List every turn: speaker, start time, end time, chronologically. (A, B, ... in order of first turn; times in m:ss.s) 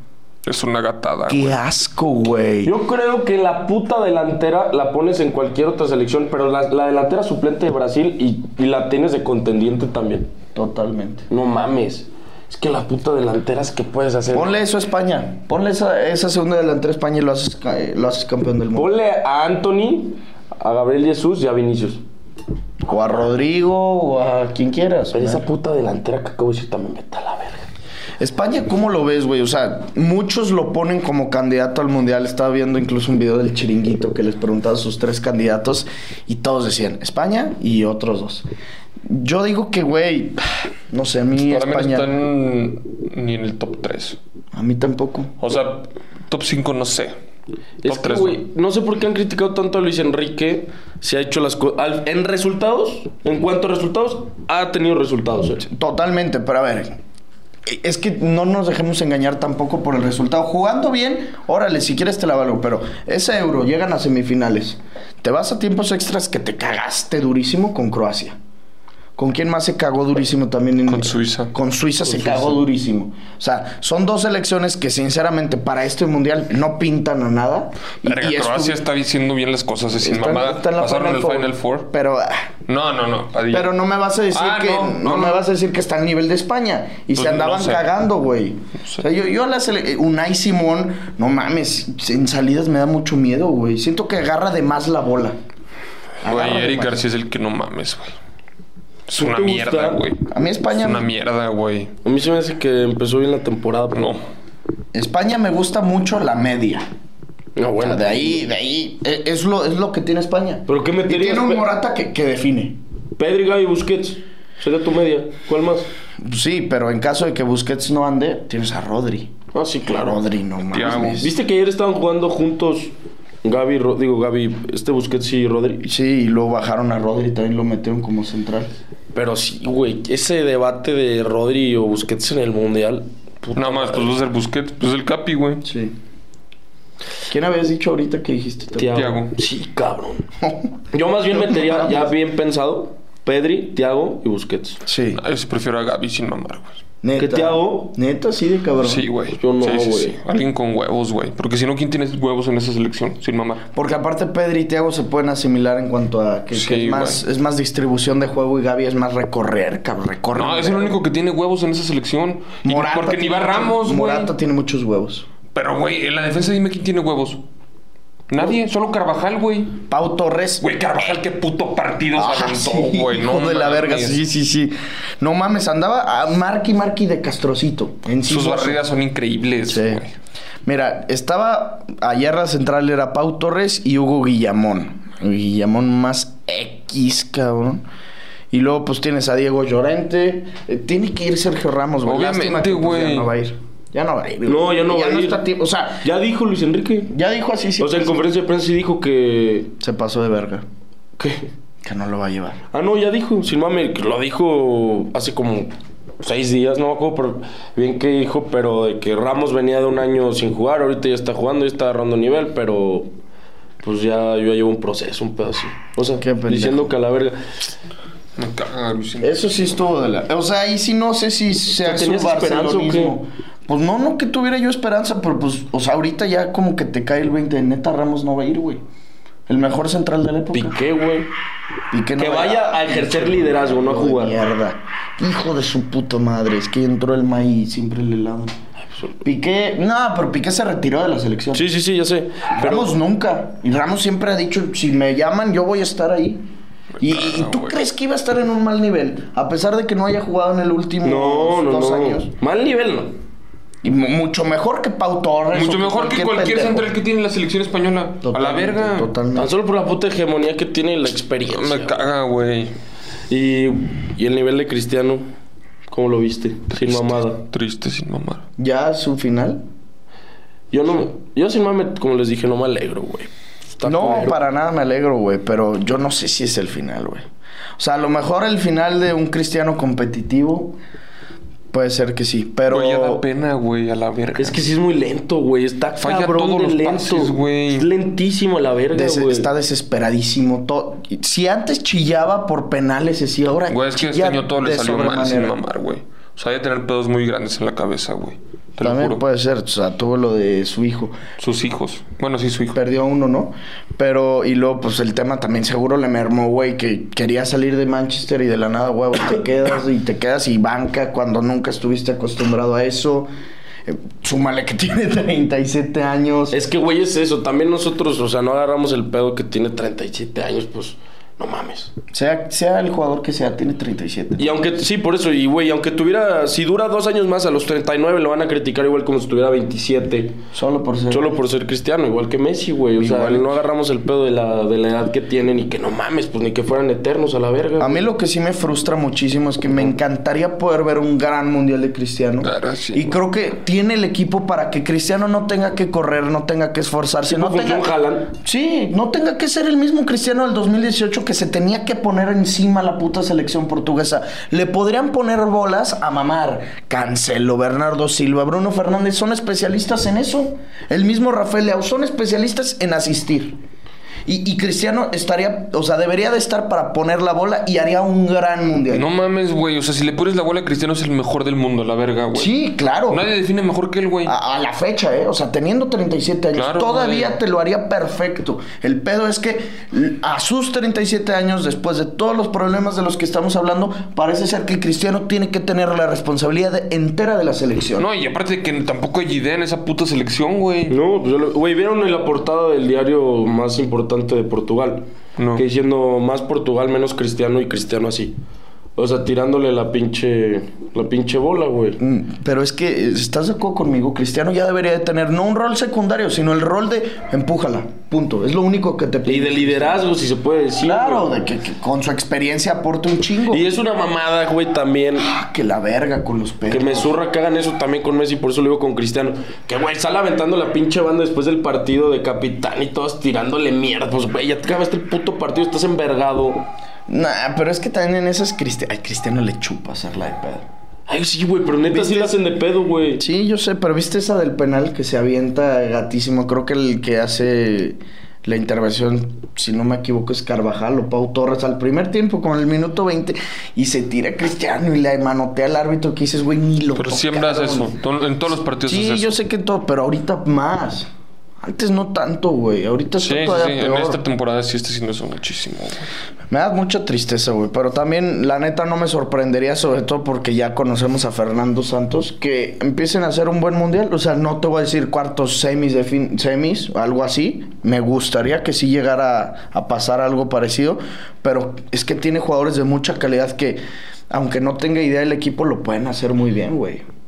0:00.4-0:01.6 A
0:01.3-0:02.7 B
0:02.6-0:10.3 C
0:10.5-0:11.3 B
0:11.3-0:14.6 C
0:14.3-0:18.9 B
0:18.8-0:22.0 C
0:22.8-0:25.4 B
0:25.1-0:27.7 C
0:28.2-0:38.4 B
0:39.0-0:42.1 B
0:41.4-0:44.2 A
0:44.5-0:45.4 B
0:45.4-0:47.2 A
0:47.8-0:55.6 C
0:47.8-0:48.4 A
0:55.6-0:57.0 B
0:57.6-1:08.4 B
1:09.2-1:18.8 B
1:10.9-1:11.5 A
1:12.0-1:12.6 C
1:18.0-1:21.9 A
1:20.0-1:22.5 B
1:22.7-1:23.7 A
1:23.5-1:35.4 B
1:24.3-1:25.4 A
1:27.2-1:27.8 A
1:36.2-1:37.0 B
1:36.2-1:38.1 A
1:39.1-1:41.9 A
1:39.1-1:40.0 C
1:40.3-1:41.1 B
1:42.0-1:44.2 C
1:43.9-1:44.2 A
1:44.9-1:46.8 B
1:47.6-1:48.5 C
1:47.8-1:52.8 B
1:50.7-1:51.7 C
1:53.2-1:55.9 C
1:56.2-1:59.3 B
1:59.5-2:00.2 C
1:59.9-2:01.3 B
2:00.7-2:01.2 A
2:01.1-2:02.9 C
2:03.4-2:05.8 C
2:05.8-2:08.7 B
2:09.1-2:14.2 C
2:13.5-2:15.6 A
2:15.6-2:15.9 B
2:17.3-2:19.0 B
2:18.8-2:20.3 C
2:18.9-2:19.3 A
2:20.4-2:20.7 B
2:20.9-2:24.8 C
2:21.4-2:22.1 B
2:24.8-2:25.2 B
2:25.1-2:26.8 A
2:27.0-2:29.0 B
2:27.2-2:27.9 C
2:28.8-2:33.6 A
2:29.4-2:30.2 C
2:33.7-2:41.0 B
2:36.5-2:37.2 A
2:40.3-2:44.3 A
2:42.6-2:45.2 B
2:45.5-2:47.4 A
2:48.3-2:49.8 A
2:49.9-2:50.6 B
2:50.6-2:54.2 A
2:52.1-2:58.8 B
2:58.2-3:00.1 A
2:59.7-3:00.0 B
3:00.6-3:07.8 B
3:08.5-3:16.0 B
3:12.0-3:13.3 A
3:14.5-3:15.4 C
3:16.0-3:17.1 C
3:17.1-3:18.2 B
3:17.8-3:19.7 C
3:19.8-3:20.6 B
3:21.2-3:21.5 C
3:21.8-3:22.6 B
3:22.7-3:33.1 C
3:33.8-3:37.4 C
3:36.2-3:36.9 B
3:38.4-3:39.4 A
3:39.2-3:48.8 B
3:41.8-3:43.2 C
3:49.5-3:50.8 B
3:50.5-3:51.3 C
3:51.9-3:58.6 B
3:52.2-3:54.3 C
3:59.2-4:01.6 B
4:01.5-4:03.0 C
4:02.6-4:06.4 B
4:07.0-4:07.8 A
4:07.0-4:12.3 B
4:11.0-4:13.1 C
4:13.8-4:16.9 B
4:15.5-4:19.1 A
4:18.2-4:19.5 B
4:19.3-4:22.0 C
4:21.4-4:22.7 A
4:23.3-4:25.2 C
4:25.9-4:27.4 C
4:26.7-4:28.4 A
4:28.6-4:29.6 B
4:30.7-4:34.4 C
4:33.8-4:37.2 B
4:37.8-4:40.8 B
4:41.7-4:43.2 B
4:42.7-4:44.6 A
4:44.4-4:49.5 C
4:46.0-4:47.9 A
4:48.9-4:55.5 B
4:53.7-4:59.2 A
4:58.8-5:01.2 B
5:01.4-5:02.8 A
5:02.7-5:13.3 B
5:13.8-5:16.6 B
5:16.5-5:21.9 C
5:22.1-5:24.5 B
5:24.4-5:30.4 C
5:30.5-5:31.4 B
5:31.1-5:38.0 C
5:33.0-5:33.5 B
5:37.8-6:03.6 B
5:42.4-5:43.2 A
5:47.2-5:48.3 C
6:04.2-6:09.0 B
6:08.9-6:12.5 A
6:12.3-6:13.2 B
6:13.1-6:14.3 A
6:14.2-6:28.1 B
6:16.5-6:17.4 A
6:28.0-6:31.0 A
6:30.9-6:38.3 C
6:35.4-6:35.6 A
6:39.0-6:42.0 C
6:42.0-6:50.0 B
6:49.2-6:51.3 C
6:50.8-6:53.7 B
6:53.5-6:55.3 C
6:55.2-6:57.1 B
6:56.7-7:06.6 C
7:07.1-7:10.6 B
7:11.1-7:13.2 C
7:11.9-7:12.4 B
7:13.2-7:27.9 B
7:26.9-7:29.4 A
7:28.8-7:31.1 B
7:31.6-7:34.2 B
7:33.2-7:36.0 A
7:36.5-7:57.0 B